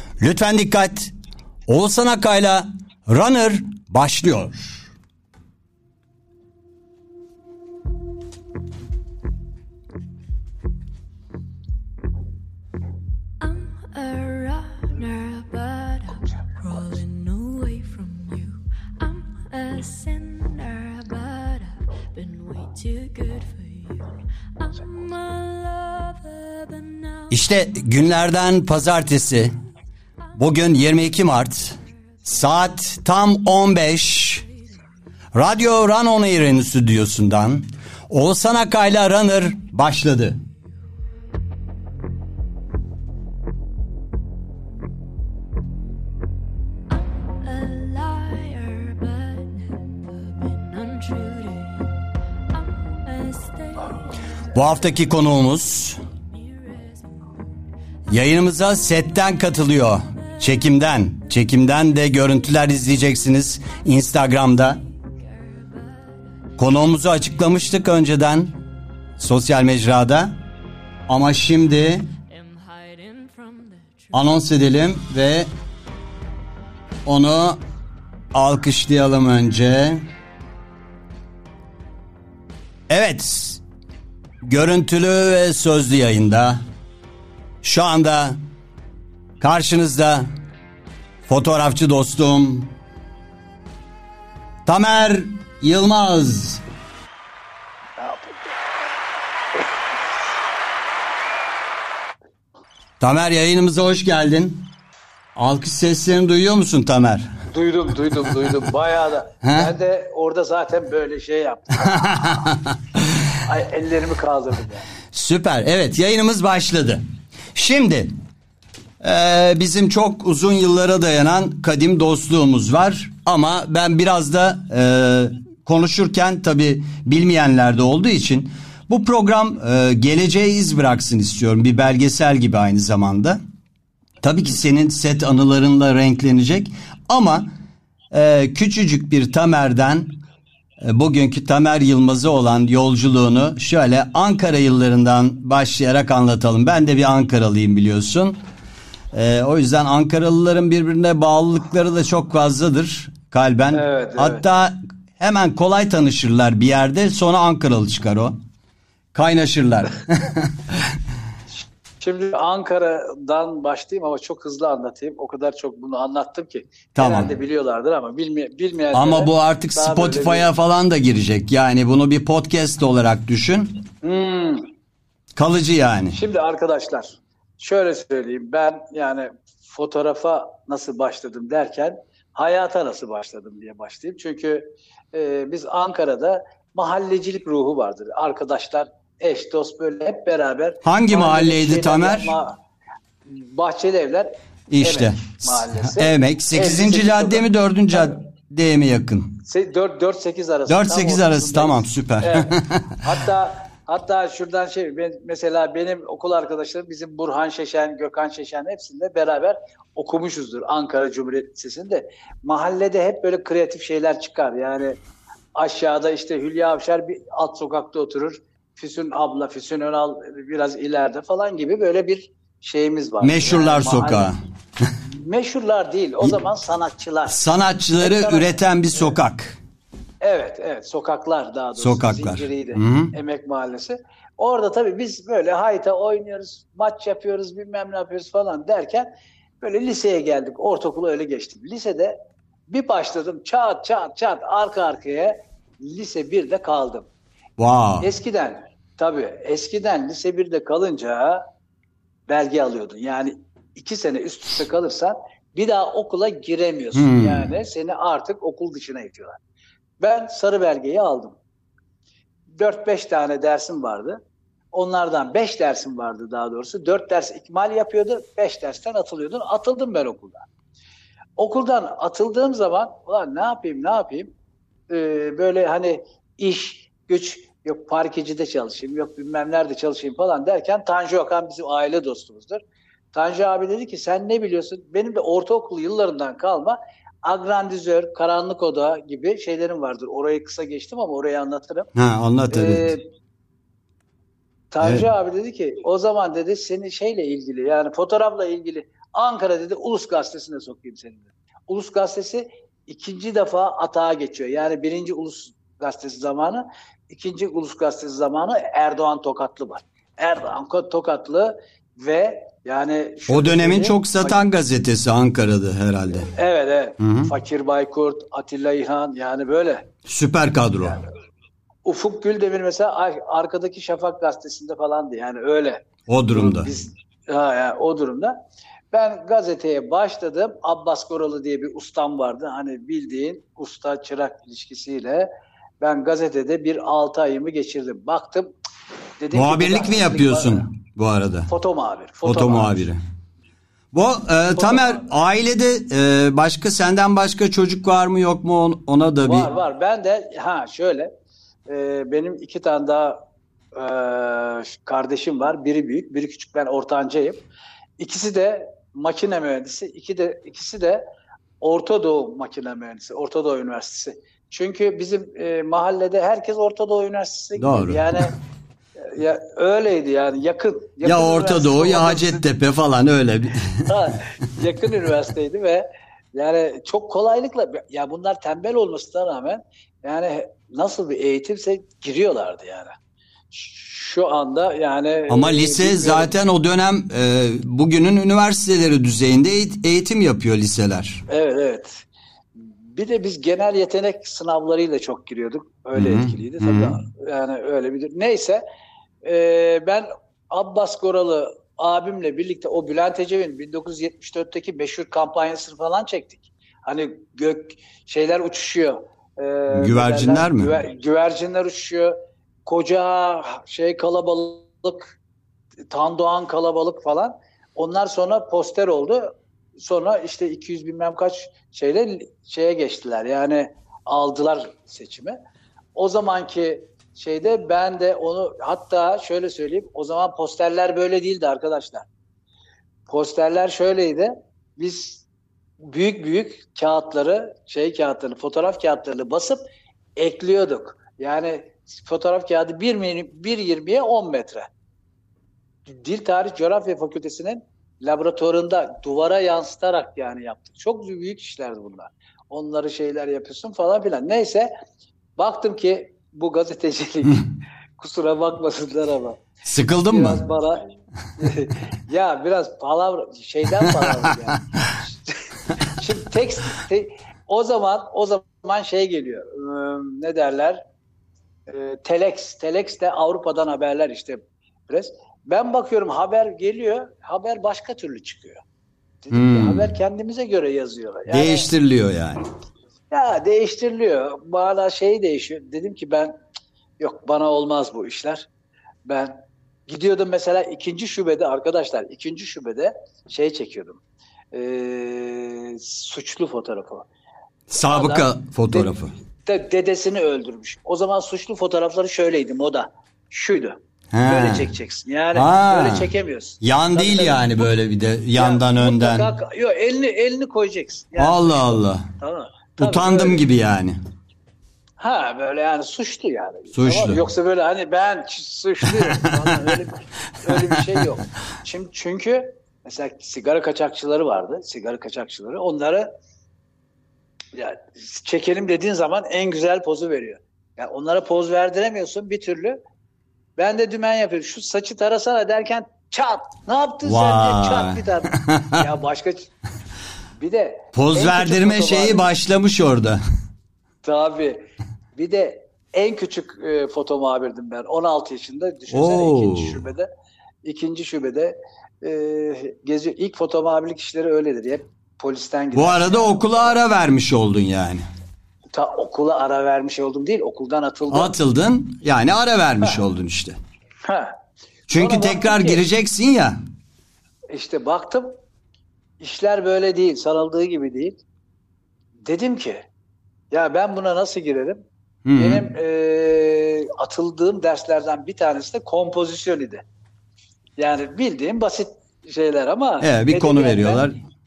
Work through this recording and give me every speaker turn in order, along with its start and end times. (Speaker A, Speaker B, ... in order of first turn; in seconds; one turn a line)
Speaker A: 0.2-1.1
Speaker A: 1.7-4.9
Speaker B: 13.4-27.4
Speaker A: 27.3-29.6
Speaker B: 30.2-32.9
Speaker A: 30.4-34.4
Speaker B: 34.1-34.8
Speaker A: 35.3-40.4
Speaker B: 46.9-52.0
Speaker B: 52.5-55.1
Speaker A: 54.5-56.0
Speaker B: 56.3-57.6
Speaker A: 58.1-64.8
Speaker B: 58.2-68.0
Speaker A: 66.6-68.5
Speaker A: 69.2-70.4
Speaker A: 71.1-72.1
Speaker B: 72.3-74.5
Speaker A: 74.1-75.5
Speaker A: 77.1-77.6
Speaker A: 78.3-80.0
Speaker A: 82.9-83.6
Speaker A: 84.4-86.6
Speaker A: 87.6-88.4
Speaker A: 89.4-90.3
Speaker A: 91.3-92.7
Speaker A: 94.7-96.6
Speaker C: 98.0-98.4
Speaker A: 103.0-104.7
Speaker A: 105.4-107.3
Speaker C: 107.5-112.3
Speaker A: 109.4-109.7
Speaker A: 111.8-113.2
Speaker C: 113.4-114.9
Speaker A: 115.1-117.0
Speaker A: 117.5-118.1
Speaker A: 119.0-133.4
Speaker A: 134.2-137.5
Speaker A: 138.1-140.2
Speaker A: 140.8-148.4
Speaker A: 149.1-158.4
Speaker C: 153.7-154.4
Speaker A: 159.1-160.8
Speaker C: 162.0-170.5
Speaker A: 166.9-167.3
Speaker A: 168.9-173.8
Speaker C: 174.0-174.7
Speaker A: 175.4-176.2
Speaker C: 176.1-192.6
Speaker A: 190.8-192.3
Speaker C: 193.3-198.2
Speaker A: 194.7-199.4
Speaker C: 199.4-215.0
Speaker A: 200.7-203.0
Speaker C: 215.6-224.3
Speaker A: 223.2-224.4
Speaker C: 225.0-229.2
Speaker A: 227.3-229.6
Speaker C: 230.2-247.1
Speaker A: 231.8-233.1
Speaker A: 247.6-248.1
Speaker C: 248.0-251.4
Speaker C: 252.3-259.4
Speaker A: 256.9-257.5
Speaker C: 260.0-261.4
Speaker C: 262.6-264.2
Speaker C: 264.7-270.5
Speaker C: 271.4-274.3
Speaker C: 274.9-282.6
Speaker C: 283.1-291.9
Speaker A: 291.9-292.9
Speaker C: 292.5-293.1
Speaker C: 294.7-314.4
Speaker A: 294.8-295.1
Speaker A: 313.3-316.3
Speaker C: 316.1-319.9
Speaker A: 317.0-317.3
Speaker A: 320.1-321.0
Speaker C: 321.9-328.4
Speaker A: 326.1-326.7
Speaker C: 328.9-338.5
Speaker C: 339.2-340.7
Speaker A: 339.3-341.5
Speaker C: 341.5-342.9
Speaker A: 342.2-343.0
Speaker A: 343.9-349.5
Speaker C: 344.5-345.1
Speaker C: 349.3-351.1
Speaker C: 351.7-353.2
Speaker C: 353.7-357.4
Speaker C: 358.0-361.1
Speaker C: 361.6-368.3
Speaker A: 367.6-368.3
Speaker C: 369.0-372.4
Speaker A: 371.0-373.9
Speaker C: 373.9-382.9
Speaker C: 383.5-386.3
Speaker A: 385.3-391.2
Speaker C: 391.3-392.1
Speaker C: 392.8-398.6
Speaker A: 395.9-397.0
Speaker C: 399.2-415.2
Speaker A: 409.7-410.7
Speaker C: 415.9-425.4
Speaker C: 425.9-432.1
Speaker C: 433.1-435.2
Speaker C: 435.8-439.6
Speaker C: 440.2-444.7
Speaker C: 445.9-454.7
Speaker C: 455.4-459.5
Speaker A: 459.6-460.4
Speaker C: 460.1-470.8
Speaker C: 471.7-478.6
Speaker C: 479.2-481.7
Speaker A: 479.3-479.9
Speaker A: 481.3-482.4
Speaker C: 483.1-486.4
Speaker C: 487.0-488.5
Speaker C: 489.1-494.0
Speaker C: 494.5-497.1
Speaker A: 497.7-499.1
Speaker C: 497.8-498.9
Speaker C: 499.4-507.7
Speaker A: 504.1-504.7
Speaker A: 505.4-506.1
Speaker A: 506.6-509.3
Speaker C: 508.4-513.4
Speaker A: 511.2-512.1
Speaker A: 512.8-514.0
Speaker C: 515.0-526.1
Speaker A: 516.7-517.2
Speaker A: 518.8-519.7
Speaker A: 520.5-520.8
Speaker C: 527.5-532.8
Speaker C: 533.6-539.5
Speaker A: 537.0-538.8
Speaker C: 540.4-542.3
Speaker A: 540.9-543.2
Speaker C: 544.0-544.6
Speaker C: 545.1-550.1
Speaker A: 548.9-549.8
Speaker C: 550.6-556.8
Speaker A: 555.7-558.0
Speaker C: 558.7-561.3
Speaker A: 561.1-563.6
Speaker C: 564.0-564.4
Speaker A: 564.9-566.6
Speaker C: 564.9-565.9
Speaker C: 567.5-568.4
Speaker C: 569.2-571.2
Speaker C: 572.2-572.9
Speaker C: 573.5-574.9
Speaker A: 575.2-575.6
Speaker C: 575.4-579.8
Speaker C: 580.8-584.1
Speaker A: 583.0-584.1